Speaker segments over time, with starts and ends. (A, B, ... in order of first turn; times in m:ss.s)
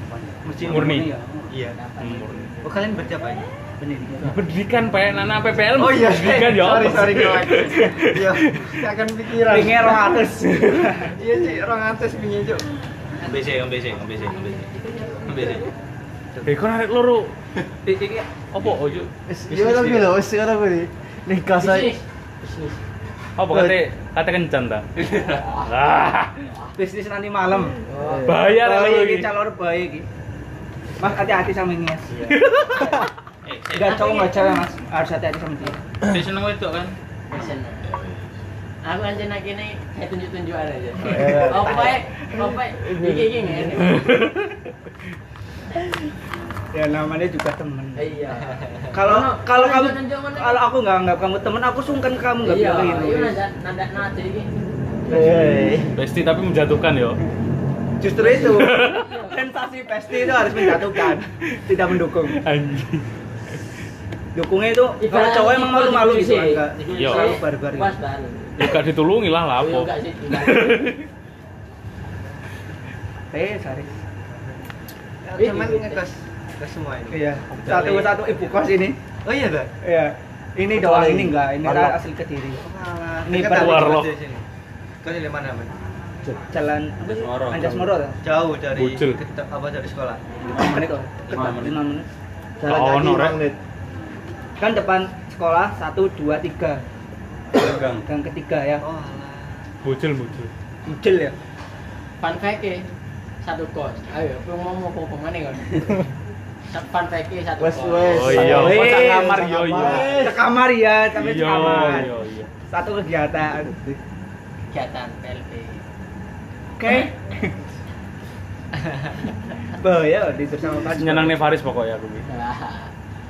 0:00.4-0:01.5 A
0:00.6-0:01.1 B
0:01.5-0:01.8 C
0:02.0-0:02.5 B
0:02.6-0:03.5 C
0:03.8-0:04.4 A
0:04.2-0:08.9 B
0:05.8-0:10.2 C
0:09.5-0:11.1 A
0:11.0-0:12.6 C
0:13.2-0:15.7 D
0:14.9-0:15.6 E
0:16.4-0:17.3 B
0:17.8-0:18.3 A
0:18.5-0:19.1 B
0:19.3-0:22.0 F
0:19.5-0:20.1 D
0:21.6-0:22.7 E
0:23.4-0:24.9 B
0:23.5-0:23.8 F
0:25.1-0:25.4 D
0:25.6-0:26.5 B
0:26.7-0:27.8 A
0:27.8-0:28.4 E
0:28.0-0:28.4 F
0:28.2-0:29.3 B
0:28.4-0:30.0 A
0:31.0-0:32.3 A
0:32.1-0:32.4 C
0:32.3-0:32.9 B
0:33.4-0:34.2 D
0:33.7-0:35.8 A
0:33.9-0:34.6 E
0:36.0-0:38.3 D
0:37.3-0:37.9 E
0:38.8-0:44.1 E
0:41.0-0:41.9 F
0:41.6-0:41.9 C
0:42.7-0:43.8 F
0:43.9-0:44.5 B
0:46.7-0:48.1 A
0:48.0-0:50.6 E
0:48.9-0:53.4 A
0:52.4-0:54.5 E
0:55.1-0:55.9 F
0:55.1-0:55.7 C
0:55.9-0:57.2 B
0:58.0-1:02.4 A
0:58.2-0:59.4 E
0:58.4-0:59.2 B
1:00.4-1:01.0 B
1:02.3-1:03.0 B
1:04.3-1:08.0 A
1:05.0-1:08.8 E
1:06.9-1:07.4 B
1:08.6-1:11.0 B
1:09.6-1:10.8 E
1:13.3-1:13.9 A
1:15.2-1:18.2 C
1:15.4-1:16.0 E
1:17.1-1:19.0 A
1:19.2-1:19.7 C
1:19.8-1:22.6 A
1:20.7-1:22.0 F
1:22.6-1:24.4 C
1:23.3-1:23.8 A
1:23.3-1:24.1 B
1:25.0-1:25.7 C
1:26.5-1:28.2 A
1:27.2-1:27.8 B
1:28.2-1:30.2 C
1:28.7-1:29.2 B
1:30.5-1:32.1 A
1:31.3-1:31.7 D
1:32.6-1:33.6 F
1:32.7-1:33.4 B
1:34.6-1:36.8 A
1:37.5-1:38.0 D
1:38.0-1:38.8 A
1:38.8-1:39.7 C
1:39.8-1:40.5 B
1:40.8-1:41.4 A
1:42.2-1:42.9 E
1:43.4-1:46.0 E
1:46.7-1:48.7 E
1:47.6-1:50.4 F
1:48.1-1:50.2 B
1:48.4-1:52.1 A
1:51.1-1:52.5 B
1:52.7-1:53.7 A
1:53.6-1:54.0 F
1:54.7-1:55.8 E
1:56.8-1:57.5 A
1:59.8-2:01.4 A
2:01.0-2:02.2 B
2:02.2-2:02.9 E